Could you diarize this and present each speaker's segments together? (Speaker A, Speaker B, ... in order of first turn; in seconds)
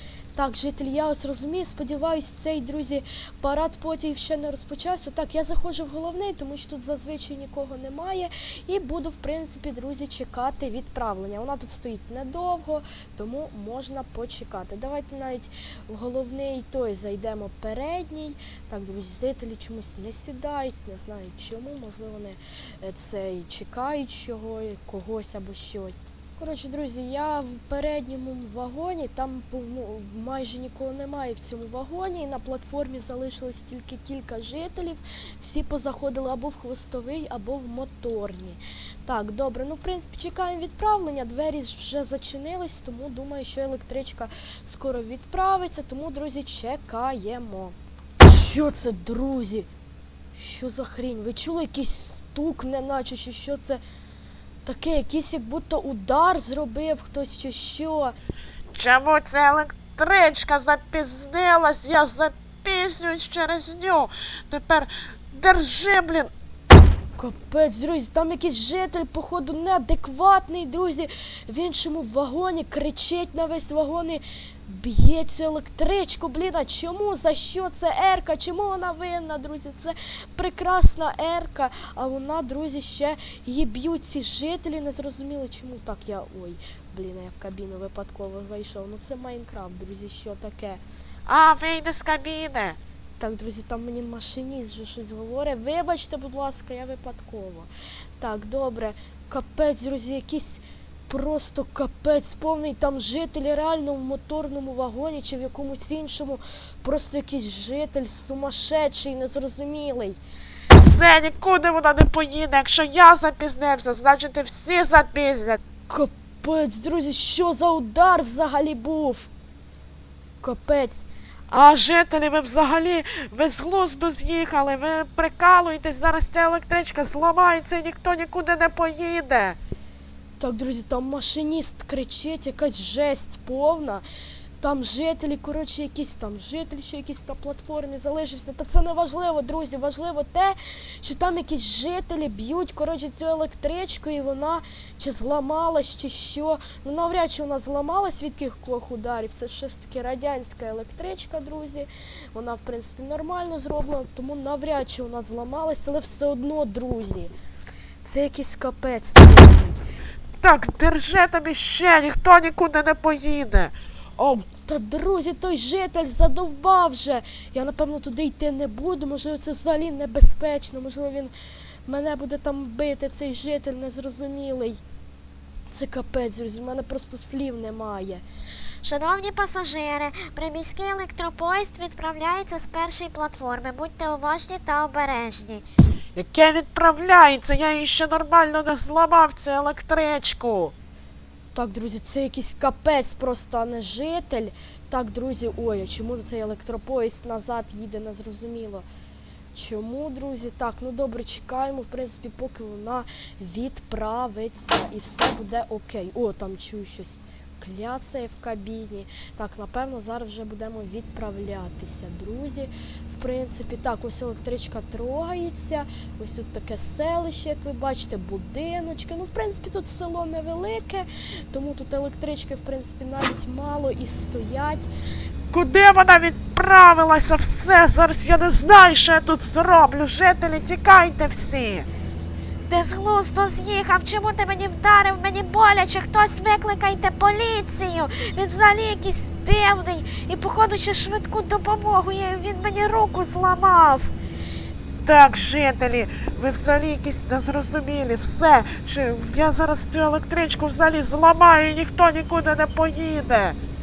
Speaker A: 0.3-49.7, 50.3-53.8, 54.6-58.1, 67.2-90.8, 93.2-110.2, 115.9-119.3, 120.4-121.1, 130.4-134.1, 134.6-157.3, 158.0-159.8, 164.2-171.3, 171.9-174.8, 175.7-178.2, 191.5-198.9, 199.5-224.9
Speaker B: 58.7-66.3, 91.3-92.8, 110.7-115.6, 121.5-129.6, 160.4-163.8, 186.2-190.7, 225.5-231.9, 232.7-234.9, 235.8-237.1, 237.7-244.1, 245.1-253.6
Speaker C: 178.8-185.7, 234.8-236.0, 237.0-237.8, 242.2-242.8